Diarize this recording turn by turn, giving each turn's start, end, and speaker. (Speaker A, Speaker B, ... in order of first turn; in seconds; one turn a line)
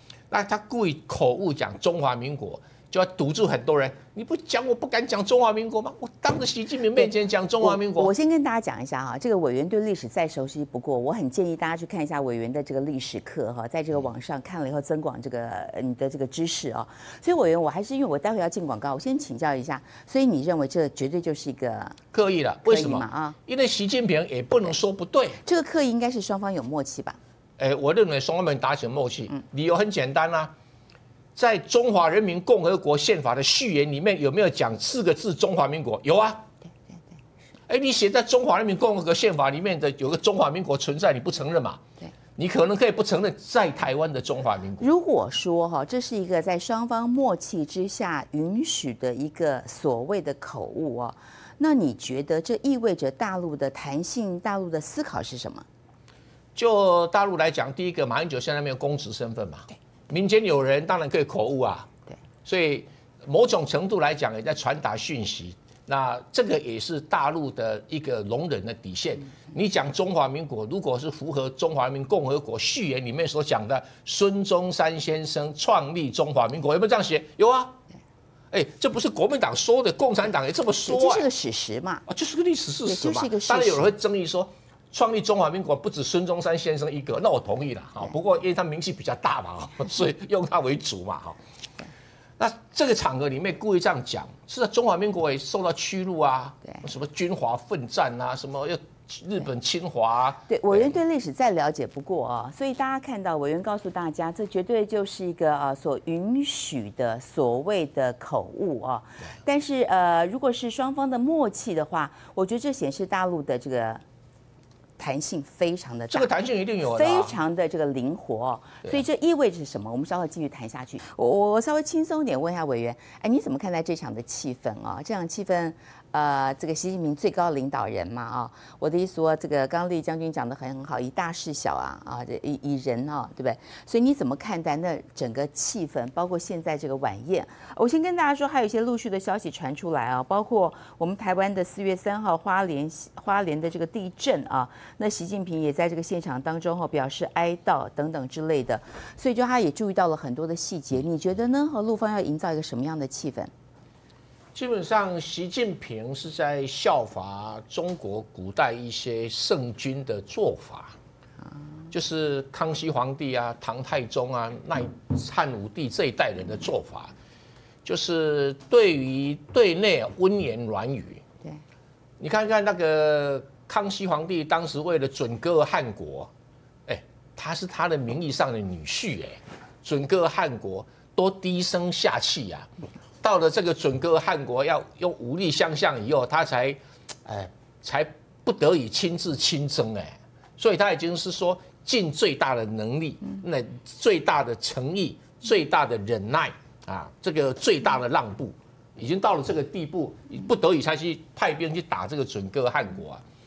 Speaker A: 0.3-8.1
Speaker B: 7.6-22.0
Speaker A: 22.1-25.4
Speaker B: 22.7-23.4
Speaker B: 25.4-27.2
Speaker A: 27.6-30.5
Speaker A: 31.4-36.5
Speaker A: 37.7-41.8
Speaker A: 42.4-44.9
Speaker B: 44.8-55.6
Speaker A: 56.5-61.9
Speaker A: 62.4-77.8
Speaker A: 78.5-81.3
Speaker B: 80.8-82.0
Speaker A: 82.1-91.4
Speaker B: 82.8-83.9
Speaker A: 92.4-100.9
Speaker B: 100.5-114.0
Speaker B: 115.0-116.3
Speaker A: 116.1-117.3
Speaker B: 116.8-153.5
Speaker A: 154.5-160.9
Speaker A: 161.9-167.1
Speaker A: 167.8-171.2
Speaker A: 172.2-176.3
Speaker A: 176.9-182.7
Speaker A: 183.2-203.2